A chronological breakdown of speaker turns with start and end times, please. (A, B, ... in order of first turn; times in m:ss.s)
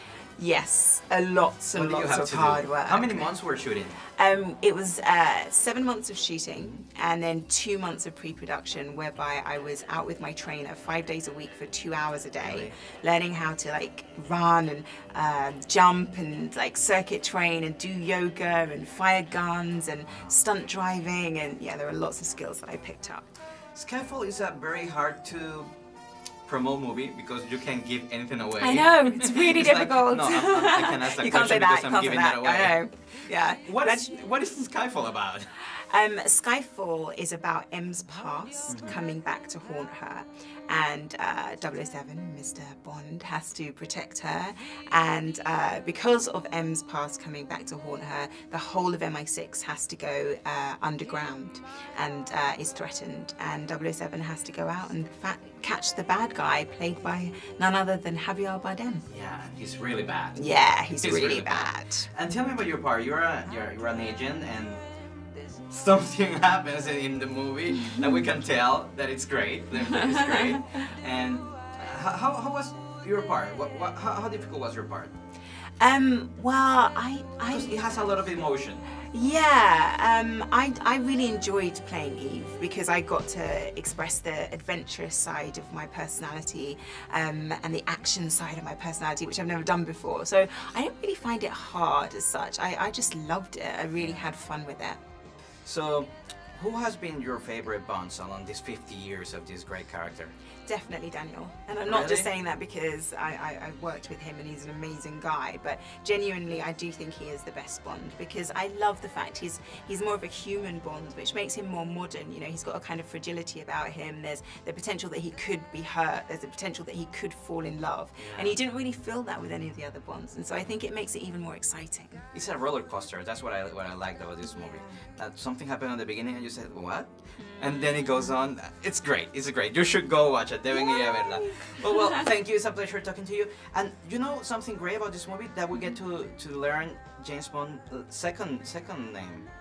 0:00.4-0:03.4 A
0:01.7-0:04.0 B
0:04.2-0:23.2 A
0:12.4-0:12.7 B
0:23.7-0:25.7 B
0:26.4-0:32.8 B
0:28.6-0:34.2 A
0:33.6-0:35.5 B
0:35.7-0:59.0 A
0:38.7-0:39.0 B
0:59.1-1:00.4 B
1:00.3-1:02.1 A
1:01.0-1:04.8 B
1:05.7-1:15.1 B
1:09.7-1:10.6 A
1:15.8-1:17.9 A
1:17.5-1:18.8 B
1:19.1-1:35.0 A
1:35.6-1:40.3 B
1:40.6-2:02.2 A
1:41.8-1:42.3 B
1:58.2-1:58.5 B
2:02.3-2:19.5 B
2:04.4-2:05.0 A
2:07.4-2:08.3 A
2:10.7-2:12.3 A